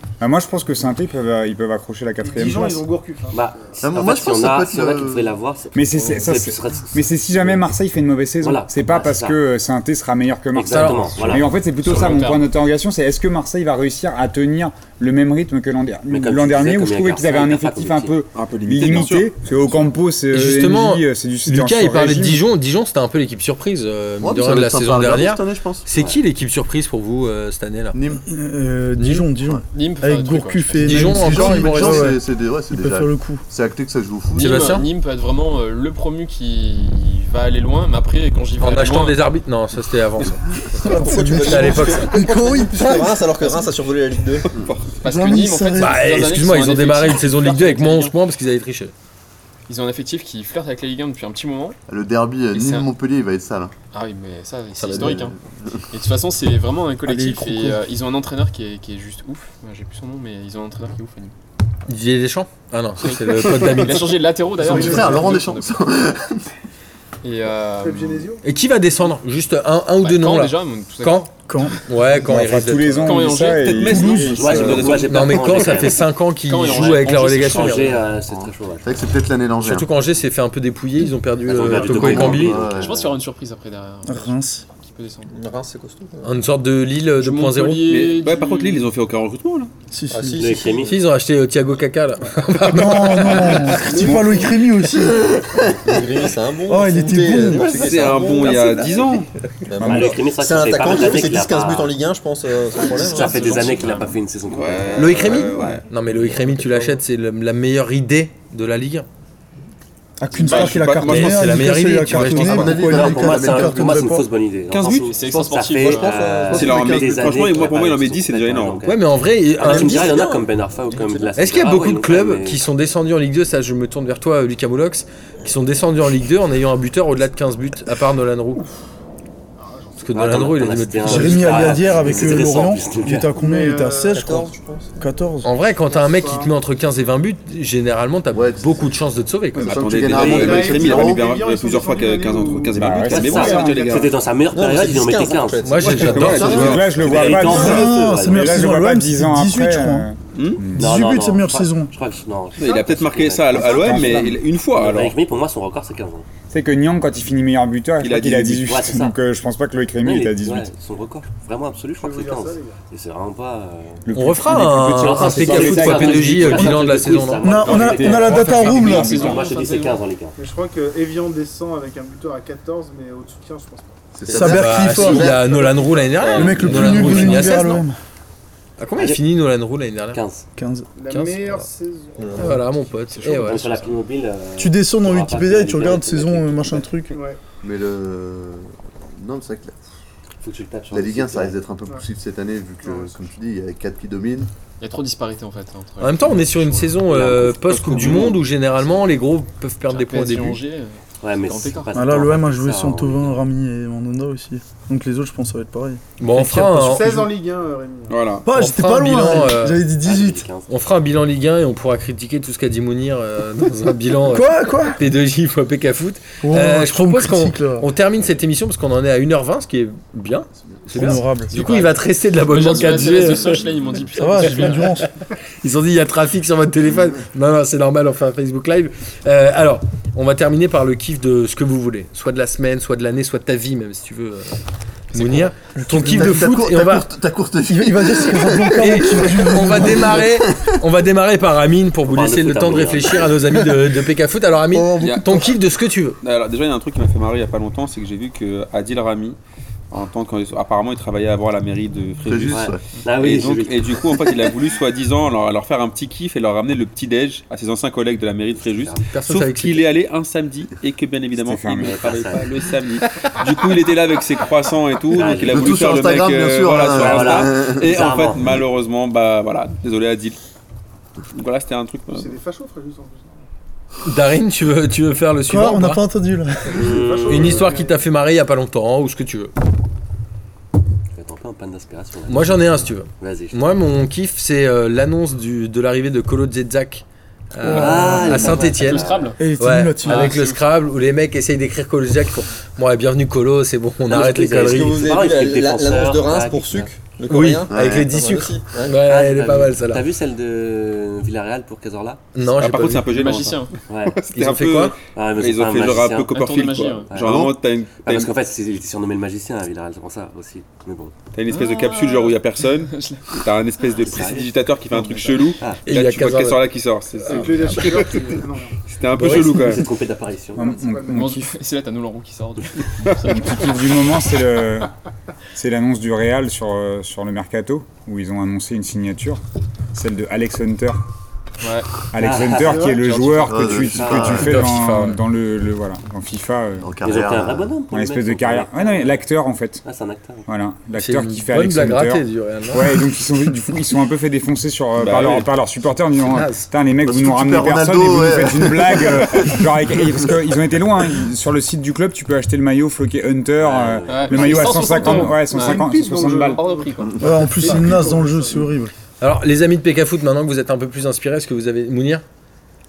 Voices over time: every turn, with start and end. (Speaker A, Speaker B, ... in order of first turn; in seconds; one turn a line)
Speaker A: 0.2-2.8
Speaker B: 2.2-3.7
Speaker C: 3.3-7.7
Speaker D: 3.8-5.3
Speaker A: 5.7-22.4
Speaker C: 8.4-9.4
Speaker C: 10.5-12.2
Speaker E: 10.7-11.3
Speaker F: 11.8-12.5
Speaker C: 16.1-18.2
Speaker G: 18.3-19.8
Speaker E: 20.3-28.0
Speaker D: 24.2-25.8
Speaker C: 25.9-26.2
Speaker D: 27.9-28.2
Speaker H: 28.2-33.4
Speaker E: 29.0-29.3
Speaker F: 29.7-31.0
Speaker E: 30.8-32.1
Speaker D: 30.8-34.9
Speaker F: 34.3-39.2
Speaker E: 34.4-34.9
Speaker E: 38.6-42.2
Speaker H: 40.8-43.2
Speaker I: 40.8-44.5
Speaker G: 44.4-44.9
Speaker F: 45.0-48.1
Speaker H: 45.0-46.0
Speaker E: 45.8-48.9
Speaker F: 49.7-51.8
Speaker D: 51.9-53.7
Speaker F: 52.5-52.9
Speaker F: 53.9-55.4
Speaker I: 54.8-55.3
Speaker D: 54.9-55.3
Speaker F: 55.9-61.3
Speaker H: 57.0-57.8
Speaker E: 61.9-64.8
Speaker F: 63.0-65.8
Speaker D: 64.6-66.5
Speaker B: 64.8-65.4
Speaker F: 67.2-68.2
Speaker B: 67.8-68.4
Speaker E: 68.4-73.2
Speaker F: 70.0-71.3
Speaker H: 71.5-71.8
Speaker A: 72.2-75.0
Speaker F: 73.0-74.4
Speaker G: 73.4-75.7
Speaker H: 73.9-74.2
Speaker C: 74.3-76.0
Speaker E: 74.8-78.0
Speaker F: 76.4-78.1
Speaker C: 76.6-79.0
Speaker D: 78.3-79.9
Speaker E: 79.6-82.5
Speaker C: 81.4-83.2
Speaker D: 81.6-82.9
Speaker F: 82.6-85.3
Speaker H: 84.0-84.6
Speaker I: 85.3-86.4
Speaker E: 86.2-88.0
Speaker F: 87.2-88.9
Speaker G: 87.9-89.7
Speaker H: 89.9-90.5
Speaker I: 90.1-91.0
Speaker C: 90.3-91.0
Speaker E: 90.8-94.1
Speaker H: 92.6-95.3
Speaker G: 94.0-94.3
Speaker D: 95.0-95.8
Speaker I: 95.8-104.1
Speaker H: 96.7-97.8
Speaker G: 97.4-99.3
Speaker A: 99.8-100.2
Speaker C: 99.8-102.0
Speaker C: 102.7-105.5
Speaker G: 104.5-105.8
Speaker E: 105.0-109.1
Speaker I: 106.2-107.0
Speaker H: 110.2-114.3
Speaker G: 110.3-112.5
Speaker E: 111.0-113.3
Speaker D: 112.3-113.9
Speaker C: 112.8-122.6
Speaker G: 114.7-115.2
Speaker F: 115.1-116.4
Speaker I: 115.7-117.3
Speaker G: 116.5-119.0
Speaker E: 118.8-120.1
Speaker I: 119.6-120.5
Speaker I: 121.0-121.3
Speaker E: 121.3-128.7
Speaker B: 129.6-130.1
Speaker E: 130.0-131.8
Speaker C: 130.1-133.3
Speaker H: 131.0-135.5
Speaker B: 133.3-134.4
Speaker I: 134.1-134.9
Speaker E: 135.4-140.5
Speaker B: 135.7-136.5
Speaker D: 138.3-138.9
Speaker G: 139.6-144.2
Speaker D: 139.6-141.3
Speaker C: 140.1-140.7
Speaker B: 140.4-143.0
Speaker A: 142.7-144.0
Speaker C: 143.0-148.8
Speaker I: 144.5-146.4
Speaker E: 145.6-146.8
Speaker G: 145.8-147.0
Speaker D: 146.2-147.9
Speaker A: 146.4-150.9
Speaker H: 147.2-150.1
Speaker G: 150.3-150.7
Speaker H: 150.7-151.9
Speaker C: 150.8-154.2
Speaker G: 152.6-155.2
Speaker A: 153.5-154.4
Speaker C: 154.7-156.2
Speaker A: 156.5-160.7
Speaker G: 158.0-158.8
Speaker C: 158.7-159.2
Speaker C: 160.0-164.0
Speaker B: 161.9-162.8
Speaker A: 164.0-166.9
Speaker E: 164.1-167.6
Speaker C: 164.9-170.4
Speaker H: 167.4-169.2
Speaker F: 167.6-170.0
Speaker A: 168.8-169.4
Speaker B: 170.4-174.0
Speaker D: 174.2-175.8
Speaker H: 174.3-175.3
Speaker E: 174.4-177.8
Speaker B: 174.8-177.8
Speaker G: 176.2-176.6
Speaker H: 176.4-177.9
Speaker E: 178.8-180.2
Speaker C: 178.9-179.2
Speaker C: 180.1-180.4
Speaker H: 180.6-180.9
Speaker B: 180.9-182.6
Speaker E: 181.1-181.7
Speaker I: 182.2-182.5
Speaker E: 182.4-183.8
Speaker F: 183.1-183.9
Speaker C: 183.3-187.0
Speaker H: 184.6-187.1
Speaker B: 187.1-187.4
Speaker D: 187.6-189.8
Speaker C: 190.4-191.6
Speaker D: 190.9-194.5
Speaker B: 192.8-193.2
Speaker F: 194.8-197.3
Speaker E: 196.0-200.6
Speaker C: 197.1-198.2
Speaker G: 197.6-198.4
Speaker F: 199.9-202.1
Speaker C: 201.2-203.4
Speaker H: 201.9-207.3
Speaker E: 206.2-207.1
Speaker B: 206.8-208.3
Speaker G: 208.1-208.5
Speaker H: 208.4-210.5
Speaker E: 208.5-209.8
Speaker C: 210.0-210.7
Speaker E: 210.7-223.7
Speaker H: 214.3-215.0
Speaker H: 216.4-217.9
Speaker D: 220.8-221.1
Speaker H: 220.9-221.5
Speaker F: 221.5-225.0
Speaker H: 224.1-225.1
Speaker E: 224.2-224.9
Speaker E: 225.6-234.6
Speaker E: 235.1-237.1
Speaker H: 235.6-236.6
Speaker D: 236.0-240.8
Speaker H: 237.7-240.2
Speaker E: 238.8-246.2
Speaker C: 242.1-243.4
Speaker H: 244.7-245.6
Speaker G: 245.0-245.4
Speaker G: 246.2-249.4
Speaker G: 249.9-270.4
Speaker D: 252.2-252.9
Speaker C: 252.5-254.3
Speaker C: 258.6-259.1
Speaker E: 259.1-259.9
Speaker A: 261.4-262.0
Speaker C: 261.8-262.5
Speaker C: 265.1-266.0
Speaker D: 265.5-267.9
Speaker C: 266.9-268.6
Speaker G: 271.3-272.3
Speaker B: 272.1-273.4
Speaker E: 274.0-276.0
Speaker H: 275.5-276.8
Speaker C: 276.7-277.7
Speaker B: 276.7-278.0
Speaker E: 277.3-279.5
Speaker C: 281.1-283.8
Speaker E: 282.3-289.1
Speaker H: 287.6-288.5
Speaker C: 287.6-289.4
Speaker F: 287.9-289.4
Speaker H: 289.4-290.3
Speaker E: 289.6-295.1
Speaker F: 290.0-290.6
Speaker C: 294.1-296.9
Speaker I: 294.1-299.0
Speaker E: 297.3-300.0
Speaker D: 297.7-298.1
Speaker C: 298.9-302.2
Speaker E: 302.3-303.3
Speaker G: 302.6-308.3
Speaker F: 303.0-303.7
Speaker C: 303.9-304.2
Speaker E: 304.3-304.9
Speaker C: 305.1-306.3
Speaker F: 306.3-307.5
Speaker C: 307.1-311.1
Speaker G: 311.3-318.1
Speaker F: 311.5-314.1
Speaker C: 314.0-314.5
Speaker F: 314.9-315.5
Speaker E: 315.9-316.6
Speaker B: 317.2-318.8
Speaker C: 317.3-318.1
Speaker G: 318.9-319.9
Speaker C: 319.2-320.7
Speaker A: 320.6-321.5
Speaker B: 320.6-321.3
Speaker F: 321.0-324.0
Speaker A: 323.2-324.9
Speaker A: 325.5-329.4
Speaker A: 329.9-331.0
Speaker F: 331.6-332.0
Speaker A: 332.1-336.9
Speaker C: 332.2-333.0
Speaker B: 332.6-333.1
Speaker F: 332.9-333.9
Speaker D: 333.4-334.7
Speaker C: 333.9-334.5
Speaker E: 334.3-335.2
Speaker D: 336.8-337.8
Speaker C: 337.0-339.2
Speaker A: 337.9-339.8
Speaker C: 339.8-340.5
Speaker A: 340.5-356.6
Speaker E: 341.0-343.0
Speaker G: 344.9-345.5
Speaker E: 346.2-346.7
Speaker D: 347.0-349.6
Speaker C: 353.6-355.0
Speaker F: 354.1-357.2
Speaker B: 355.0-358.7
Speaker D: 357.1-358.0
Speaker H: 357.2-358.9
Speaker E: 359.2-362.2